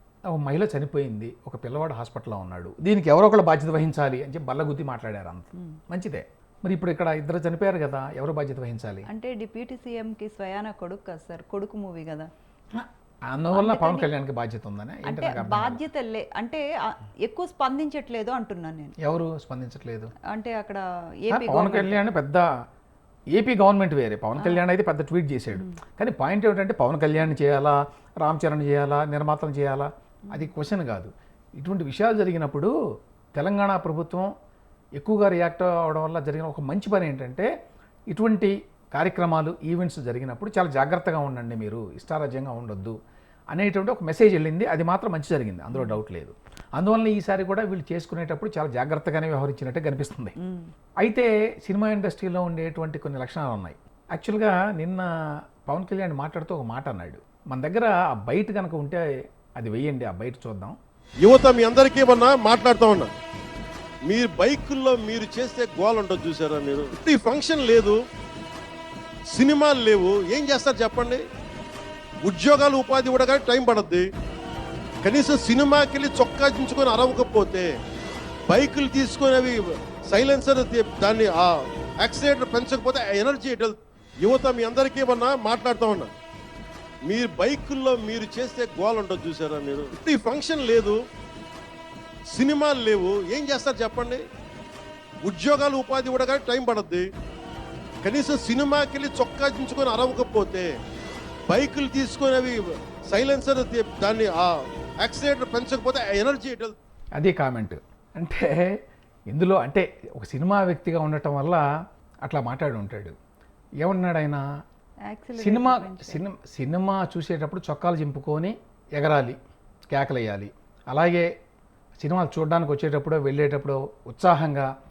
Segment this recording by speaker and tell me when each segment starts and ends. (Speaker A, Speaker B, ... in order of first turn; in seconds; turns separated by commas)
Speaker A: 0.3-9.1, Speaker B: 9.1-12.3, Speaker A: 12.7-15.8, Speaker B: 13.5-14.1, Speaker B: 15.1-18.9, Speaker A: 19.0-20.1, Speaker B: 20.3-22.0, Speaker A: 21.3-22.5, Speaker A: 23.3-32.7, Speaker A: 33.4-34.3, Speaker A: 35.0-37.5, Speaker A: 38.1-43.0, Speaker A: 43.5-50.4, Speaker B: 50.4-50.7, Speaker A: 51.0-55.1, Speaker A: 55.7-59.1, Speaker A: 59.6-60.8, Speaker C: 61.2-63.1, Speaker C: 64.1-68.0, Speaker C: 69.3-71.2, Speaker C: 72.2-74.1, Speaker C: 75.0-77.7, Speaker C: 78.5-86.1, Speaker C: 87.1-91.0, Speaker C: 92.3-94.2, Speaker C: 95.2-97.1, Speaker C: 98.0-100.7, Speaker C: 101.5-106.8, Speaker A: 107.2-108.8, Speaker A: 109.3-111.7, Speaker A: 112.2-113.2, Speaker A: 113.8-114.4, Speaker B: 115.1-116.2, Speaker A: 115.4-119.4, Speaker A: 119.9-121.3, Speaker A: 122.0-124.7